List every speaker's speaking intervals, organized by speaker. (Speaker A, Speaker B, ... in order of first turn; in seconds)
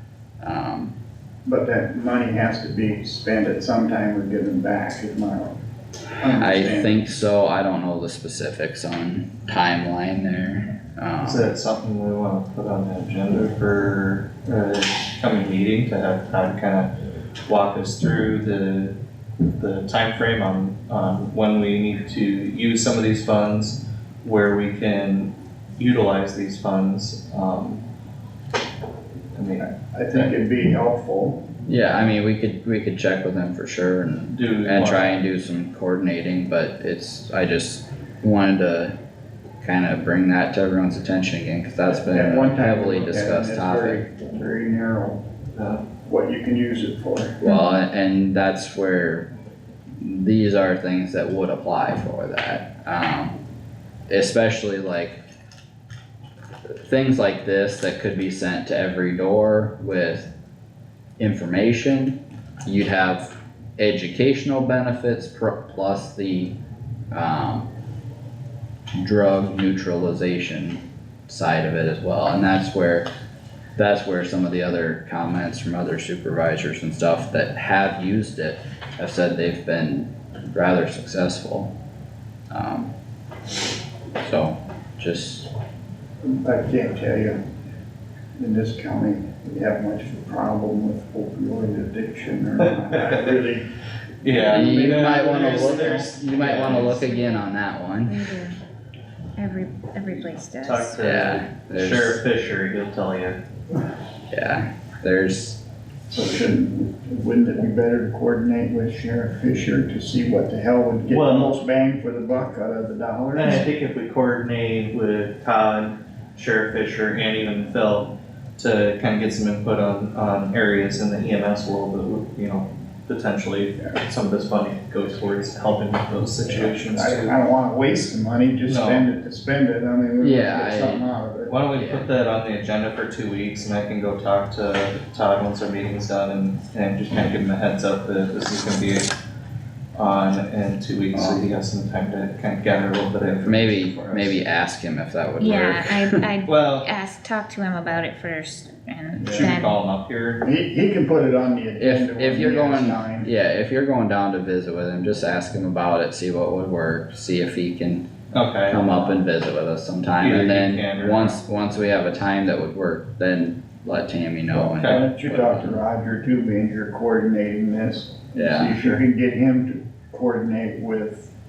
Speaker A: 0.4-0.9, 6.3-11.5, 31.7-39.0, 39.6-44.0, 47.4-49.3, 50.0-53.4, 54.1-55.2, 56.7-60.3, 61.2-66.6, 67.1-67.7, 69.0-73.1, 73.8-81.7, 82.5-82.9, 84.2-85.5, 94.5-98.2, 101.0-102.2, 104.3-105.6, 130.2-131.1, 131.8-132.1, 141.2-141.5, 143.4-146.2, 151.8-158.1, 158.7-165.8, 168.3-168.8
Speaker B: 1.4-5.6, 6.2-7.0, 29.6-31.4, 42.1-45.2, 46.0-47.4, 86.2-87.4, 88.4-93.7, 94.2-96.9, 106.1-113.7, 126.9-131.6, 150.4-153.3, 164.6-171.3
Speaker C: 11.2-16.9, 17.4-19.0, 19.5-27.8, 29.4-30.3, 34.3-35.2, 45.6-45.9, 94.2-97.1, 100.6-103.4, 111.1-111.6, 113.3-127.3, 128.7-129.1, 131.5-139.1, 139.9-144.4, 146.5-146.9, 149.2-150.4, 158.3-159.2, 160.2-161.4, 164.7-165.0
Speaker D: 97.1-97.4, 98.1-98.6, 99.4-101.0, 145.4-149.8